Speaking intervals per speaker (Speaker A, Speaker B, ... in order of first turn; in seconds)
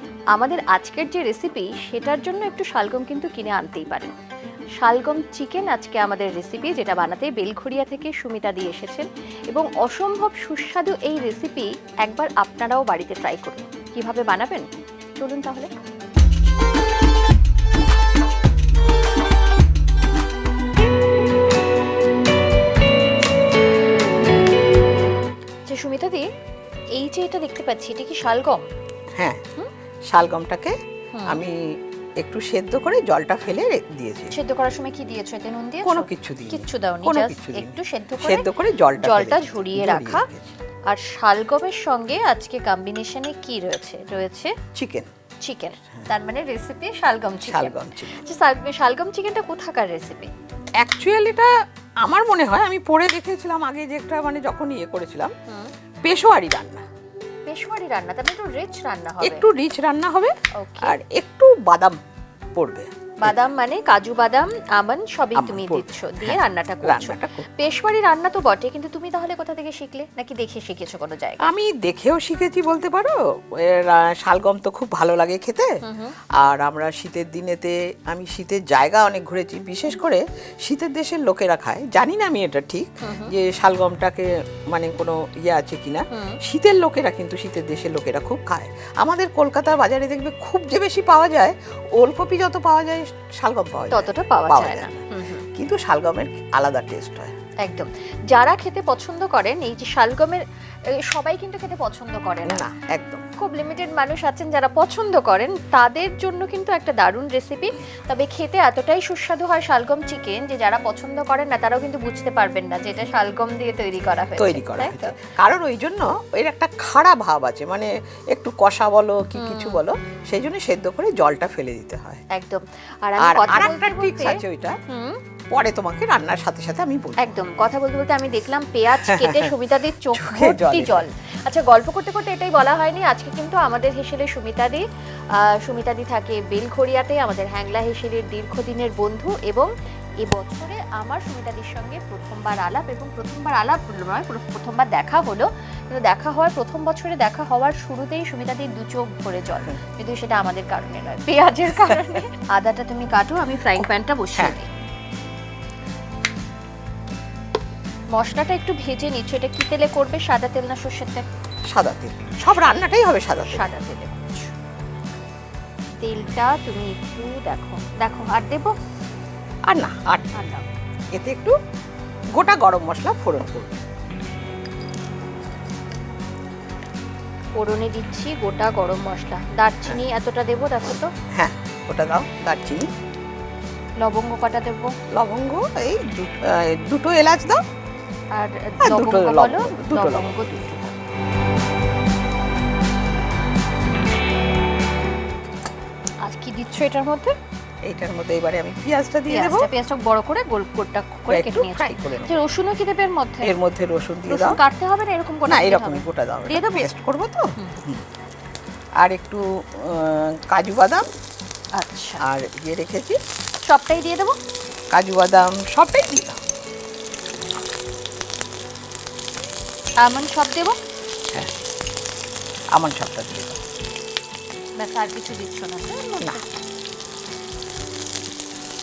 Speaker A: 0.3-4.1, 4.8-14.7, 15.2-15.7, 25.7-26.3, 26.9-28.7, 31.1-31.4, 34.3-40.3, 40.9-44.5, 45.4-50.3, 57.5-59.5, 60.5-61.0, 63.2-71.4, 75.8-76.1, 83.0-83.3, 86.1-86.4, 93.9-95.5, 97.6-100.4, 101.0-102.7, 103.4-115.2, 119.4-119.8, 122.3-125.2, 127.2-134.8, 135.3-154.7, 158.1-161.2, 162.4-164.5, 166.0-168.8, 170.3-170.7, 177.6-181.1, 184.0-184.9, 188.3-191.0, 196.2-197.3, 199.3-203.5, 204.3-206.9, 207.6-207.8, 211.7-212.2, 213.6-214.4, 220.0-220.8, 224.8-226.6
Speaker B: 29.2-29.4, 30.1-30.8, 31.3-34.3, 35.8-40.5, 44.7-45.1, 47.5-48.2, 50.8-55.3, 56.0-56.9, 59.2-62.0, 62.5-63.5, 65.3-67.5, 71.4-75.8, 76.4-97.3, 102.4-103.2, 114.4-122.2, 123.2-124.8, 125.5-127.4, 128.9-129.5, 130.1-131.1, 161.7-163.7, 169.7-170.3, 171.1-171.6, 172.3-173.8, 181.3-182.9, 185.1-187.6, 188.8-190.4, 197.8-199.7, 201.3-202.4, 203.4-204.6, 205.4-208.1, 209.0-211.1, 212.2-213.2, 214.9-216.4, 222.7-223.6